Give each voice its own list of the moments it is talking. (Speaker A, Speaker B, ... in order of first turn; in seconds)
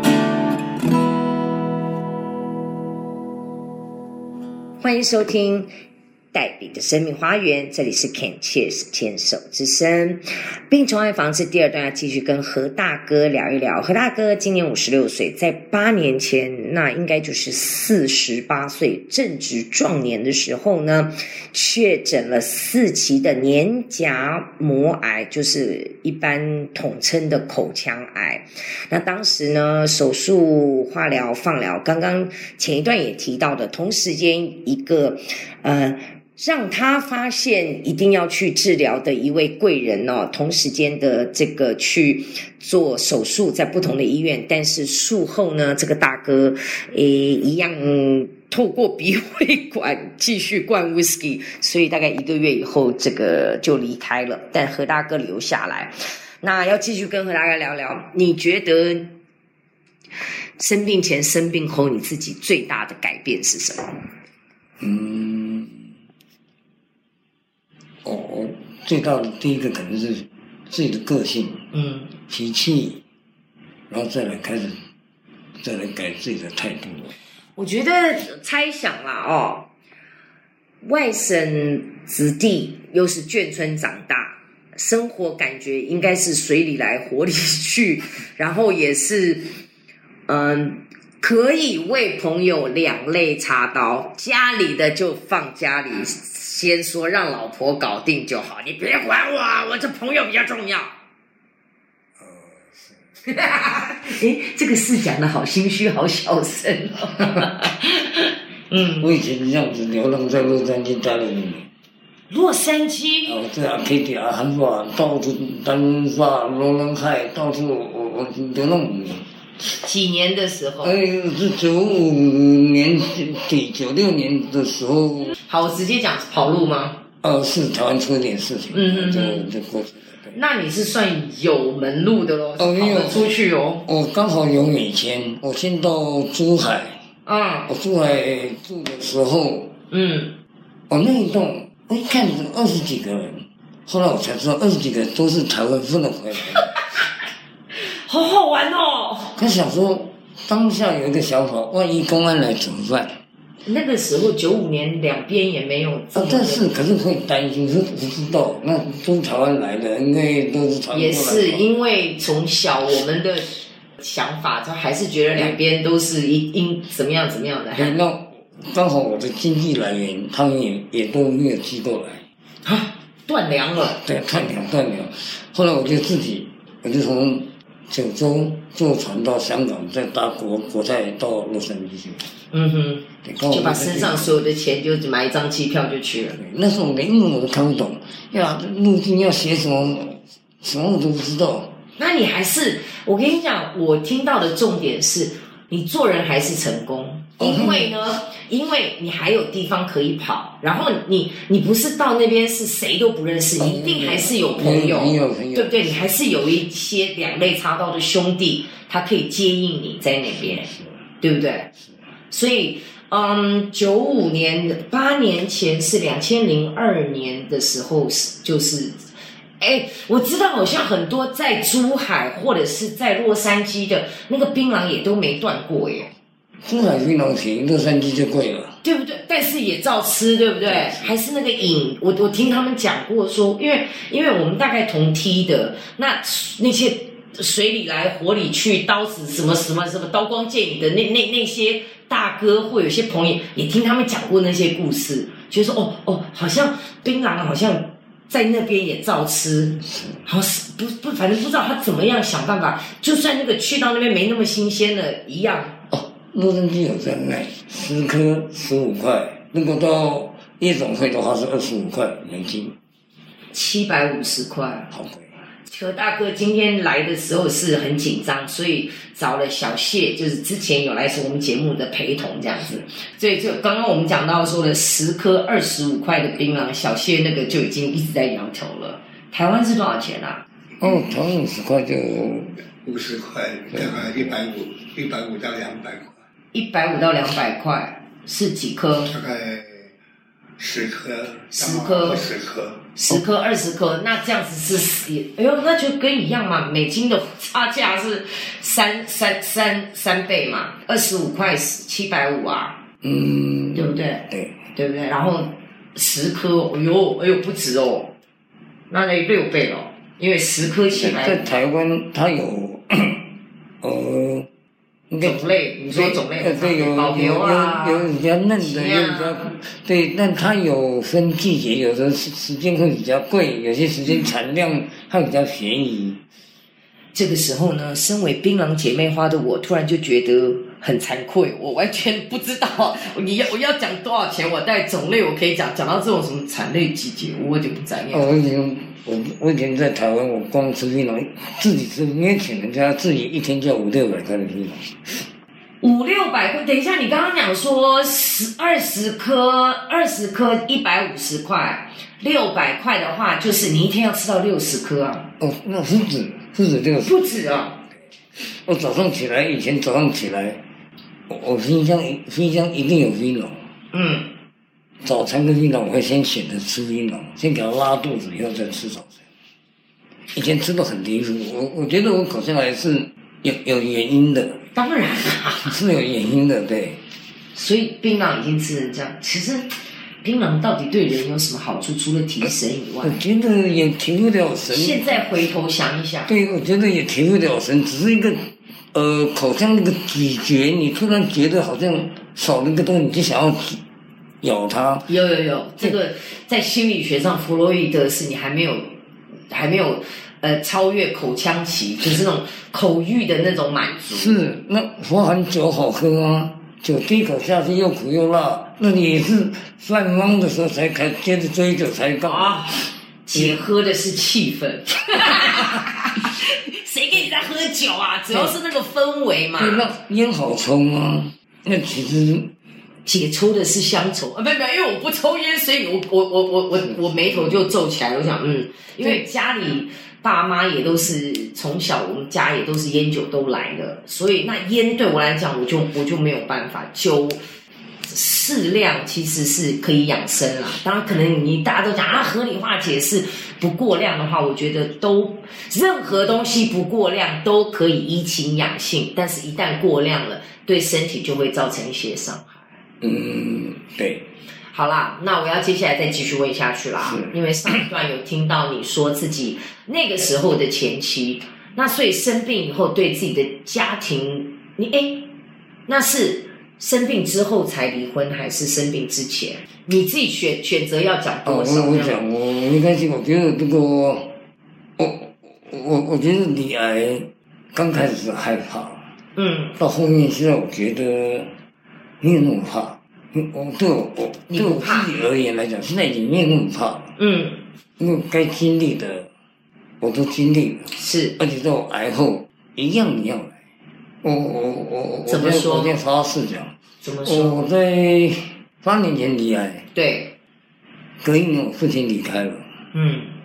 Speaker A: 4.8-5.7, 6.3-59.1, 60.6-64.1, 71.7-72.1, 77.5-79.7, 80.8-89.5, 90.3-100.9, 103.3-109.1, 112.3-113.4, 119.7-120.9, 125.4-127.0, 128.7-129.5, 130.3-133.8, 137.2-137.7, 139.9-140.3, 147.7-149.4, 153.6-156.7, 160.9-168.0, 172.6-174.0, 182.5-186.4, 191.9-210.7, 211.2-211.7, 212.3-219.1, 219.6-226.1, 228.8-255.7, 263.5-264.9, 265.6-280.4, 286.5-289.1, 291.5-292.4, 292.9-302.8, 303.7-308.1, 308.9-311.4, 315.2-319.6, 327.1-338.3, 345.8-355.3, 357.0-357.8, 363.9-364.3, 374.7-375.7, 377.5-379.7, 380.2-383.2, 384.7-386.3, 395.1-398.9, 399.5-404.4, 412.2-419.8, 423.1-437.4, 438.0-452.7, 454.7-465.3, 465.9-472.2, 479.4-479.8, 484.5-485.1, 487.2-487.6, 490.9-491.4, 495.3-495.9, 497.0-497.6, 499.9-500.3, 502.9-503.4
Speaker B: 64.8-65.9, 68.0-71.7, 72.3-73.0, 73.9-74.8, 75.6-77.1, 102.2-103.0, 109.0-111.7, 113.3-119.2, 120.8-125.4, 127.2-130.4, 132.6-133.3, 133.8-137.0, 137.7-139.7, 140.9-146.6, 149.3-153.2, 156.1-161.6, 167.7-172.2, 173.9-182.3, 183.2-184.5, 186.3-191.7, 197.4-197.8, 203.6-206.0, 210.4-211.0, 226.6-228.7, 230.6-231.1, 249.9-250.2, 255.9-262.8, 264.9-265.3, 280.8-282.6, 283.7-284.4, 303.0-304.6, 310.9-313.3, 313.8-314.5, 315.1-326.2, 338.1-345.3, 355.4-357.3, 358.3-360.6, 361.3-363.7, 365.0-369.2, 370.3-374.6, 375.6-377.0, 383.0-385.2, 386.3-393.8, 394.4-395.1, 404.1-413.6, 419.6-422.5, 426.9-427.6, 453.0-454.3, 457.0-457.3, 471.4-474.4, 475.0-479.1, 479.8-481.6, 482.2-487.1, 488.0-489.3, 490.0-493.6, 494.2-499.8, 501.2-502.6
Speaker C: 282.8-286.1, 289.1-289.7, 290.6-292.8